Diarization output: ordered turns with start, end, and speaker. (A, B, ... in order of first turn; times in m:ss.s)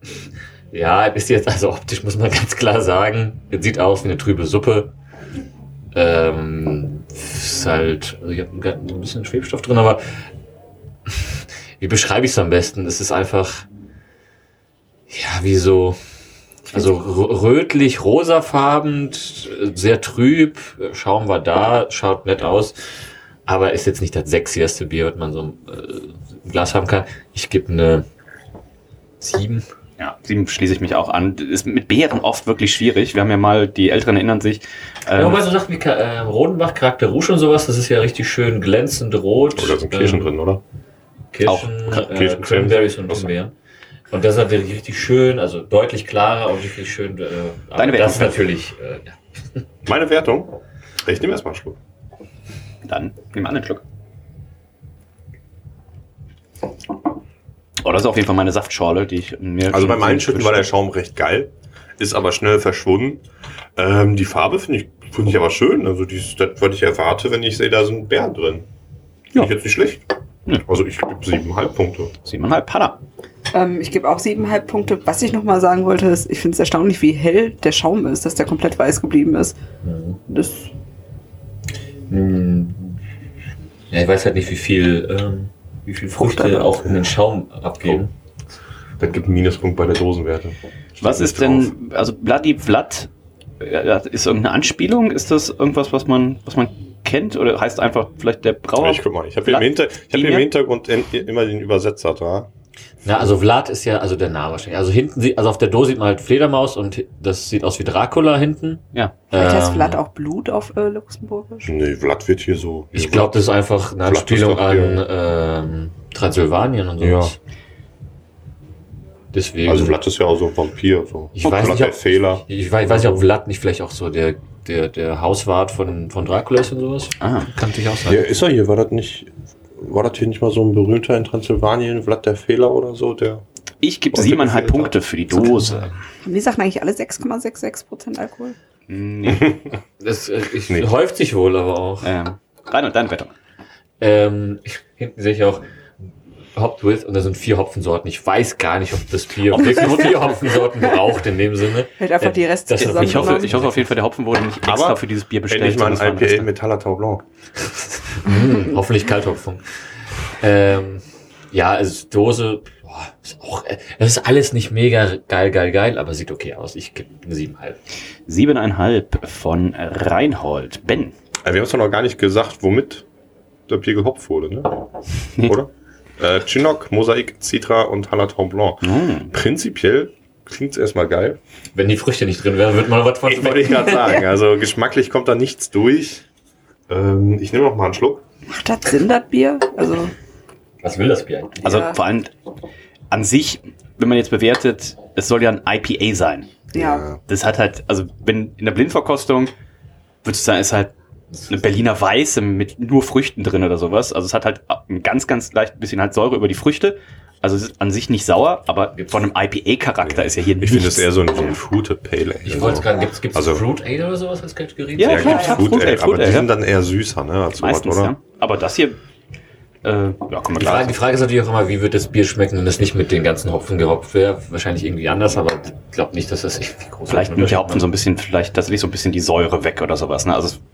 0:00.7-0:04.9 A
0:05.9-0:10.2 A
0:11.1-0:13.7 A
0:15.1-0:16.0 A
0:16.7-0:22.8 A
0:23.5-0:28.1 A
0:29.2-0:29.7 A
0:30.0-0:35.4 B
0:35.2-0:40.3 A
0:39.6-0:40.6 C
0:41.3-0:43.6 A
0:41.9-0:43.2 C
0:44.1-0:49.6 A
0:47.8-0:48.4 B
0:49.9-0:51.8 C
0:52.8-0:53.8 B
0:57.8-1:00.7 B
0:59.7-1:03.2 C
1:03.8-1:08.7 C
1:09.4-1:10.0 C
1:10.6-1:12.1 C
1:12.2-1:13.0 B
1:13.5-1:19.6 D
1:19.8-1:20.2 A
1:20.3-1:20.7 D
1:22.1-1:23.0 A
1:23.9-1:28.1 A
1:29.0-1:31.7 C
1:31.0-1:33.1 B
1:33.6-1:40.5 B
1:38.8-1:42.5 C
1:43.0-1:50.0 A
1:49.3-1:51.7 D
1:51.7-1:53.5 C
1:52.9-1:57.4 A
1:54.0-1:55.0 C
1:57.0-1:57.4 C
1:59.3-2:00.0 A
1:59.6-2:03.3 C
2:01.4-2:08.2 A
2:07.2-2:07.5 B
2:08.1-2:13.4 C
2:13.8-2:15.9 B
2:14.1-2:15.0 C
2:16.2-2:18.6 D
2:18.9-2:19.6 B
2:19.3-2:19.6 C
2:20.0-2:22.1 A
2:22.0-2:23.3 B
2:24.0-2:25.6 A
2:26.6-2:33.8 A
2:32.0-2:33.6 D
2:32.8-2:36.5 B
2:34.7-2:37.2 C
2:37.6-2:39.6 A
2:40.4-2:47.8 A
2:48.3-2:51.1 B
2:51.4-2:53.0 C
2:53.7-2:54.9 C
2:55.4-3:01.4 C
2:58.8-2:59.3 B
3:01.7-3:04.2 A
3:03.3-3:06.2 C
3:06.9-3:08.2 C
3:08.5-3:10.1 D
3:10.8-3:11.9 A
3:11.6-3:12.3 B
3:13.1-3:16.5 B
3:16.7-3:17.0 D
3:16.7-3:17.2 C
3:17.3-3:19.5 B
3:20.2-3:20.9 B
3:21.5-3:31.1 B
3:30.1-3:33.6 C
3:32.4-3:35.5 A
3:35.0-3:36.5 B
3:35.0-3:38.2 C
3:37.6-3:39.0 B
3:39.8-3:41.0 B
3:40.6-3:47.9 A
3:47.1-3:50.6 B